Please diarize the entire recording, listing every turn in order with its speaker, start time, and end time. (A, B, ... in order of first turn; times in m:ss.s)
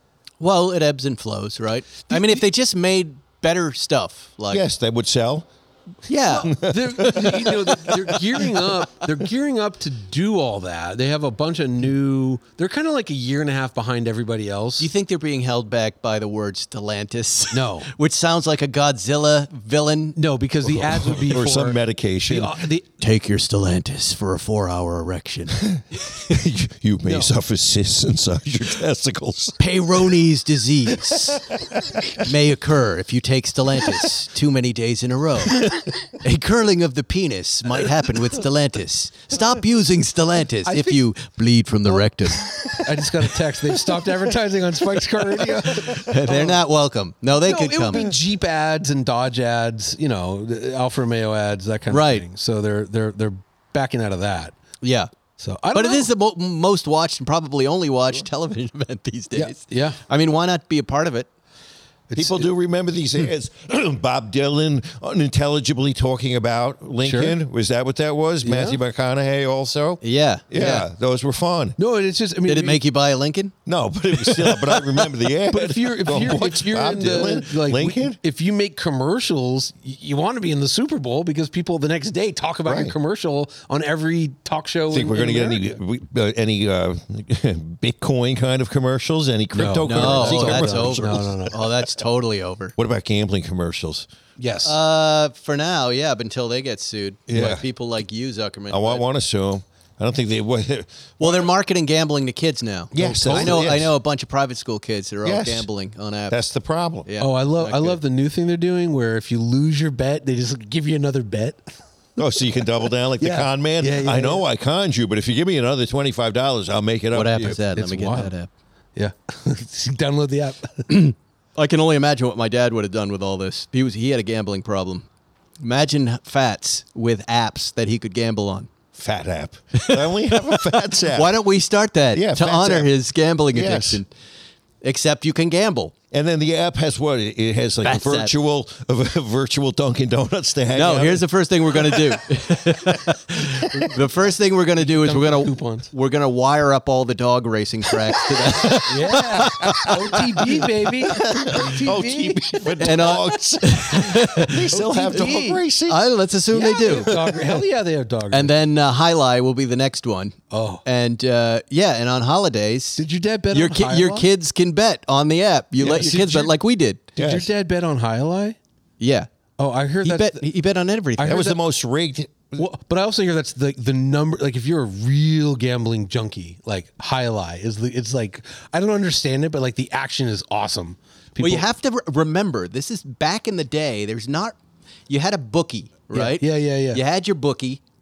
0:00.4-0:04.6 A
0:04.5-0:05.5 B
0:06.0-0:07.8 A
0:06.3-0:14.9 C
0:06.4-0:08.2 B
0:14.8-0:20.2 A
0:17.5-0:17.9 C
0:20.2-0:22.9 C
0:20.7-0:22.6 B
0:23.0-0:25.6 A
0:25.6-0:29.6 B
0:27.0-0:27.3 C
0:29.6-0:31.4 A
0:31.4-0:32.1 B
0:32.2-0:42.4 A
0:40.6-0:41.0 C
0:41.9-0:46.6 C
0:45.9-0:48.0 A
0:47.4-0:54.6 C
0:51.9-0:52.2 A
0:54.8-0:55.1 A
0:55.4-0:56.1 C
0:55.7-1:01.3 A
0:59.3-1:00.0 C
1:02.1-1:02.5 C
1:02.1-1:11.8 B
1:07.0-1:07.4 C
1:08.4-1:08.8 C
1:10.0-1:10.5 A
1:10.5-1:10.8 C
1:11.8-1:12.8 C
1:12.4-1:13.5 A
1:13.6-1:18.2 B
1:15.4-1:25.8 C
1:22.6-1:23.0 B
1:24.9-1:31.5 B
1:29.5-1:31.6 C
1:29.8-1:32.7 A
1:32.8-1:34.1 B
1:34.4-1:34.8 C
1:34.6-1:39.0 A
1:37.3-1:37.6 B
1:38.7-1:41.5 B
1:41.2-1:46.4 A
1:42.9-1:43.9 B
1:43.0-1:43.7 C
1:45.2-1:45.7 B
1:46.3-1:47.1 B
1:47.0-1:48.0 A
1:47.2-1:51.7 C
1:52.2-1:57.6 B
1:53.2-1:54.4 C
1:57.1-1:58.5 A
1:57.5-1:58.3 C
1:59.0-2:01.0 C
2:00.9-2:05.0 A
2:05.6-2:08.7 A
2:08.9-2:11.3 B
2:09.7-2:14.1 A
2:12.1-2:12.9 B
2:13.5-2:14.0 B
2:14.8-2:15.9 A
2:16.1-2:22.2 B
2:17.8-2:18.3 A
2:20.7-2:30.6 A
2:24.8-2:25.9 C
2:28.8-2:33.1 C
2:31.1-2:36.0 B
2:32.8-2:35.3 A
2:34.7-2:35.6 C
2:35.9-2:37.2 A
2:36.5-2:38.5 C
2:36.9-2:37.4 B
2:38.3-2:47.0 A
2:40.5-2:40.8 C
2:43.0-2:44.3 C
2:45.8-2:46.5 C
2:47.2-2:47.5 B
2:47.2-2:48.6 C
2:49.0-2:49.3 A
2:49.6-2:50.4 C
2:50.0-2:51.4 A
2:51.2-2:51.6 C
2:51.2-2:52.6 B
2:52.6-3:01.6 C
3:01.4-3:04.6 A
3:05.1-3:07.8 A
3:06.1-3:07.0 C